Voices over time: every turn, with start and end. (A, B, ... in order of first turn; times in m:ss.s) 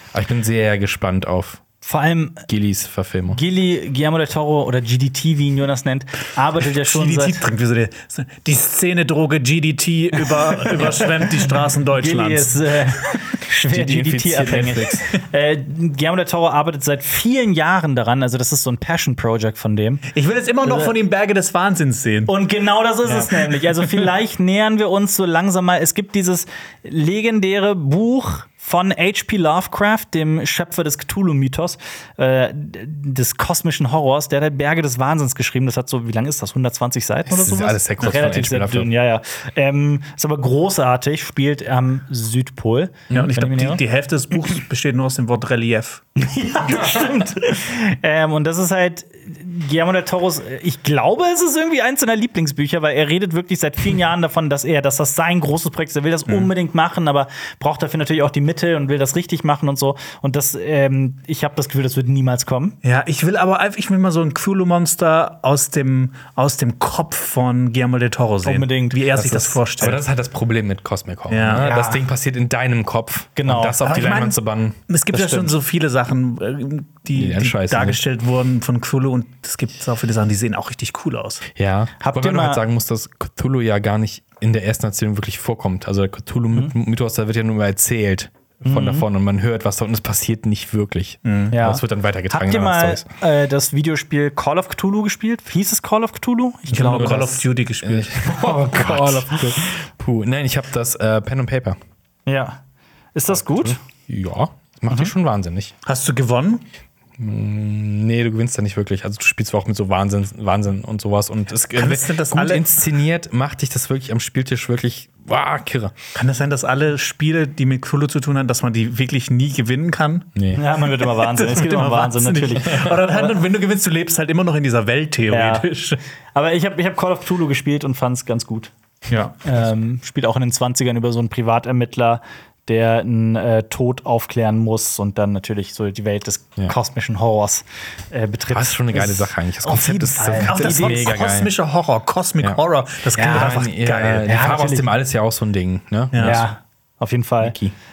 0:00.1-0:01.6 A
0:01.8-0:02.5 B
0:02.5-0:03.4 A
0:03.3-0:07.4 B
0:06.6-0:12.8 C
0:10.3-0:11.3 B
0:12.0-0:20.1 B
0:13.7-0:15.1 A
0:20.1-0:22.3 C
0:20.6-0:20.9 B
0:22.3-0:43.8 B
0:37.3-0:38.9 A
0:43.1-0:46.0 C
0:46.2-1:02.8 B
1:02.8-1:10.0 C
1:08.4-1:09.6 B
1:09.8-1:14.8 A
1:11.3-1:11.7 C
1:11.6-1:12.0 B
1:13.4-1:14.0 B
1:13.8-1:21.4 C
1:15.1-1:15.6 B
1:17.1-1:18.0 A
1:21.6-1:33.1 A
1:22.0-1:22.6 B
1:28.6-1:29.0 B
1:31.2-1:31.6 C
1:31.5-1:37.4 B
1:36.7-1:38.2 C
1:36.9-1:37.2 A
1:37.8-1:41.8 A
1:38.2-1:39.8 B
1:42.3-1:42.6 B
1:43.2-1:43.8 B
1:43.3-1:45.7 A
1:45.9-1:46.6 C
1:47.2-1:56.0 A
1:51.8-1:52.7 C
1:56.1-2:00.3 C
2:00.4-2:00.6 A
2:00.6-2:03.4 B
2:00.8-2:06.0 C
2:05.3-2:05.7 B
2:06.4-2:08.7 B
2:09.1-2:09.4 C
2:09.4-2:21.1 B
2:18.5-2:21.5 A
2:20.4-2:24.4 C
2:23.1-2:23.7 B
2:23.2-2:26.5 A
2:24.3-2:24.9 B
2:26.1-2:26.4 C
2:26.2-2:27.6 B
2:27.4-2:27.8 A